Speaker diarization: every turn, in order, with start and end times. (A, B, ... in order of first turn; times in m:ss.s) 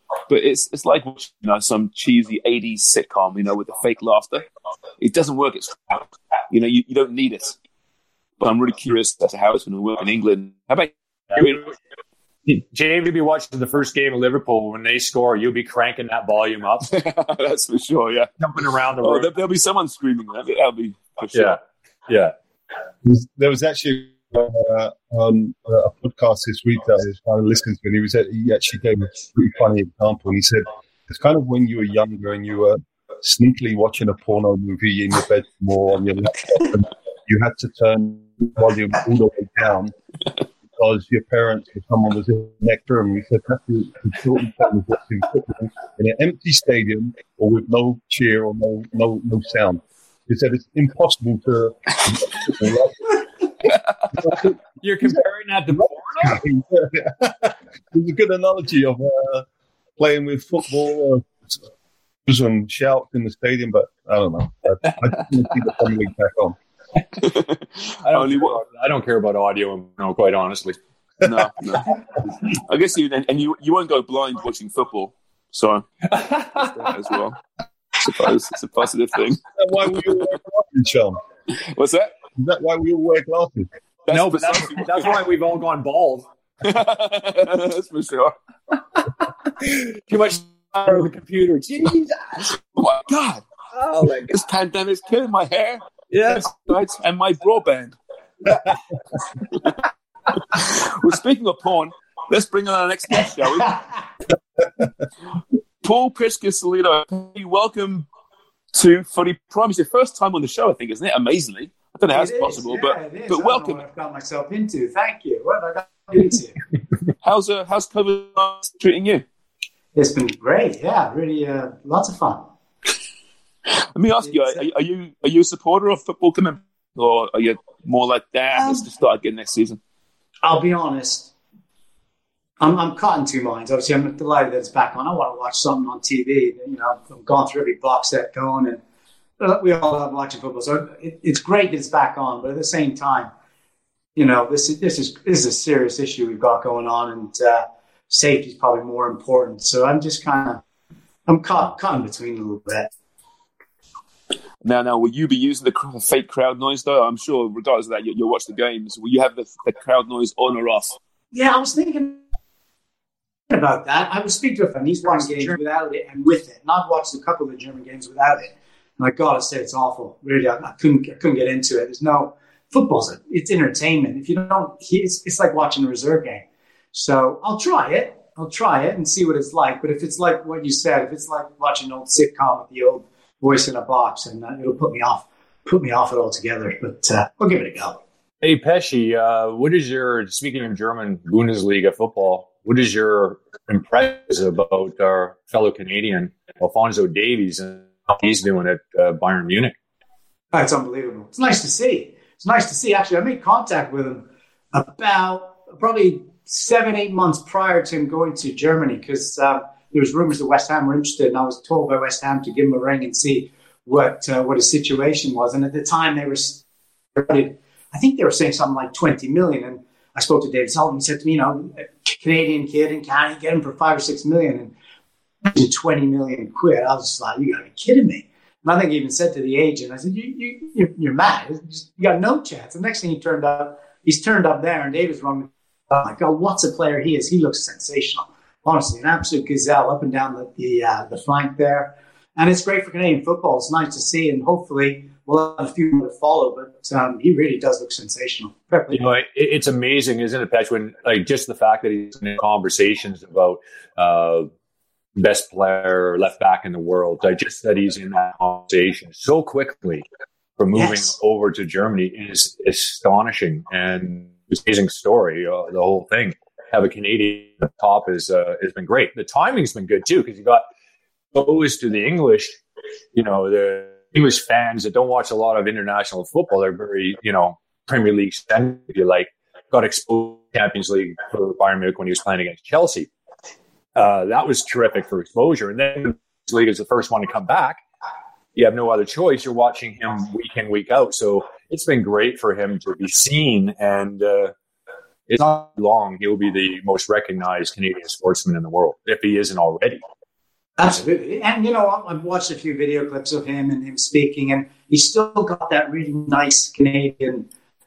0:00.3-0:04.4 A
0:05.0-0:07.6 A
0:08.4-0:11.6 A
0:11.3-0:11.7 B
0:12.5-0:16.9 B
0:16.9-0:18.3 A
0:18.4-0:19.3 B
0:19.0-0:21.6 A
0:21.3-0:22.3 B
0:23.0-0:39.9 C
0:40.8-0:53.7 C
0:54.2-0:56.4 B
0:55.7-0:59.4 C
1:00.0-1:01.5 C
1:02.2-1:06.6 C
1:07.2-1:08.6 A
1:08.0-1:10.8 B
1:11.2-1:11.9 A
1:12.5-1:15.9 A
1:16.1-1:16.9 B
1:16.5-1:17.4 A
1:18.0-1:19.4 A
1:19.6-1:21.2 C
1:21.6-1:22.1 A
1:22.4-1:23.7 C
1:24.1-1:25.1 A
1:24.1-1:26.2 B
1:26.6-1:28.3 A
1:29.6-1:32.4 B
1:32.7-1:33.4 A
1:33.7-1:34.3 B
1:34.0-1:37.9 A
1:36.1-1:36.5 B
1:40.5-1:43.8 A
1:45.8-1:48.1 A
1:48.7-1:53.8 A
1:52.1-1:56.6 D
1:57.2-1:59.2 A
1:59.9-2:02.4 D
2:03.9-2:09.8 A
2:04.2-2:04.6 D
2:10.4-2:11.3 D
2:12.6-2:18.8 D
2:19.4-2:23.3 D
2:24.2-2:30.6 D
2:31.3-2:32.9 D
2:34.6-2:41.0 A
2:41.3-2:42.2 D
2:43.5-3:08.0 D
2:45.0-2:45.6 B
3:08.4-3:19.7 B
3:20.5-3:36.6 D
3:37.1-3:44.7 D
3:45.4-4:09.0 D
4:08.9-4:14.5 B
4:15.2-4:20.0 B
4:20.6-4:30.6 B
4:31.3-4:32.6 B
4:33.1-4:43.1 B
4:43.9-4:47.8 B
4:48.6-4:54.5 B
4:55.3-5:00.0 B
5:00.8-5:07.5 D